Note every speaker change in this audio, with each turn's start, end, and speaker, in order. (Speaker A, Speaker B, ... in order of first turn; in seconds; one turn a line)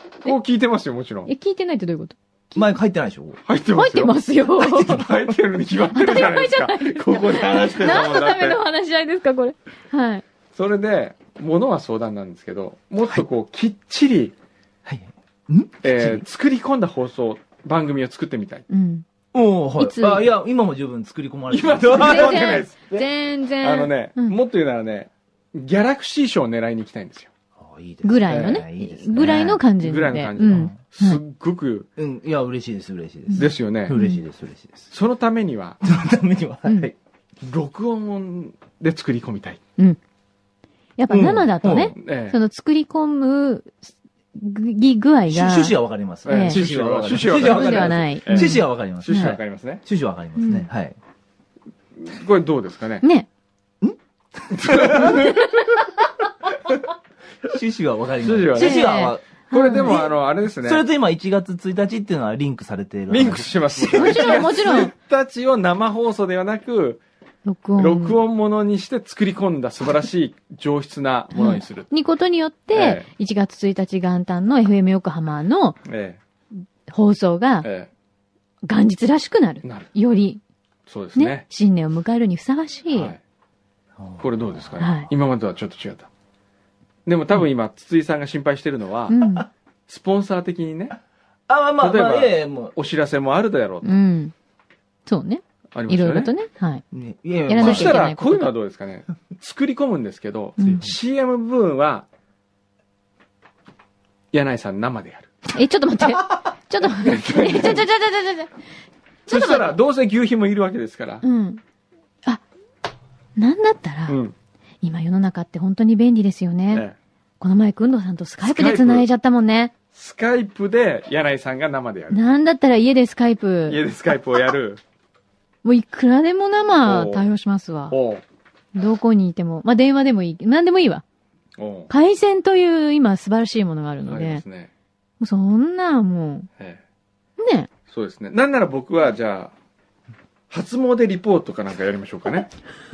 Speaker A: 0.2-1.3
Speaker B: 1.2-2.7
Speaker C: 2.5-3.4
Speaker A: 3.5-4.2
Speaker B: 3.7-5.0
Speaker C: 4.6-5.0
Speaker A: 4.8-8.6
Speaker B: 5.9-10.2
Speaker A: 10.5-14.3
Speaker C: 14.8-16.2
Speaker A: 15.8-18.6
Speaker B: 18.7-19.1
Speaker C: 19.3-22.5
Speaker B: 19.8-20.3
Speaker A: 21.5-23.1
Speaker B: 21.9-24.4
Speaker A: 23.6-27.3
Speaker C: 27.6-29.6
Speaker B: 28.0-31.2
Speaker A: 28.3-28.6
Speaker A: 29.8-31.9
Speaker C: 30.5-30.8
Speaker C: 32.0-34.9
Speaker B: 33.3-34.2
Speaker A: 33.4-34.0
Speaker A: 34.9-35.8
Speaker C: 35.8-36.9
Speaker B: 36.6-36.9
Speaker A: 37.4-39.6
Speaker B: 41.0-46.6
Speaker C: 41.1-41.9
Speaker A: 41.9-42.4
Speaker C: 45.3-51.0
Speaker A: 46.2-49.8
Speaker B: 47.3-49.4
Speaker B: 50.4-50.7
Speaker A: 52.0-53.0
Speaker B: 53.0-53.3
Speaker C: 53.8-55.2
Speaker A: 54.5-55.5
Speaker C: 57.4-60.1
Speaker A: 58.2-58.9
Speaker B: 58.5-60.1
Speaker A: 59.5-60.8
Speaker C: 60.6-64.7
Speaker A: 63.1-67.0
Speaker B: 63.9-64.9
Speaker B: 67.4-68.2
Speaker A: 67.8-71.9
Speaker B: 71.3-75.8
Speaker A: 72.7-73.1
Speaker A: 75.8-76.2
Speaker B: 76.9-77.7
Speaker A: 77.6-77.9
Speaker B: 78.6-80.4
Speaker A: 79.6-79.9
Speaker A: 80.9-81.4
Speaker B: 81.2-83.1
Speaker A: 82.9-83.2
Speaker C: 84.0-84.8
Speaker A: 84.2-86.1
Speaker B: 84.8-85.1
Speaker A: 87.0-89.2
Speaker B: 89.1-89.5
Speaker A: 89.9-91.0
Speaker C: 91.5-92.7
Speaker A: 91.8-93.9
Speaker B: 93.8-94.3
Speaker B: 95.0-96.8
Speaker A: 95.7-96.3
Speaker C: 96.9-98.0
Speaker B: 97.5-98.5
Speaker A: 97.6-102.0
Speaker B: 100.6-100.9
Speaker C: 100.6-101.0
Speaker A: 104.3-105.3
Speaker B: 105.5-108.5
Speaker A: 106.8-107.9
Speaker A: 109.3-111.2
Speaker B: 109.3-109.8
Speaker B: 111.2-111.6
Speaker B: 113.4-114.2
Speaker A: 114.1-114.3
Speaker B: 114.8-116.9
Speaker B: 117.4-119.7
Speaker A: 118.4-119.0
Speaker A: 119.9-122.2
Speaker B: 122.1-123.8
Speaker A: 123.7-124.8
Speaker B: 125.6-128.0
Speaker A: 126.8-127.3
Speaker A: 127.9-128.2
Speaker B: 128.7-131.0
Speaker A: 131.6-131.9
Speaker B: 131.9-134.4
Speaker A: 134.0-134.7
Speaker B: 135.2-136.5
Speaker B: 137.4-137.7
Speaker A: 137.9-139.5
Speaker A: 140.5-142.5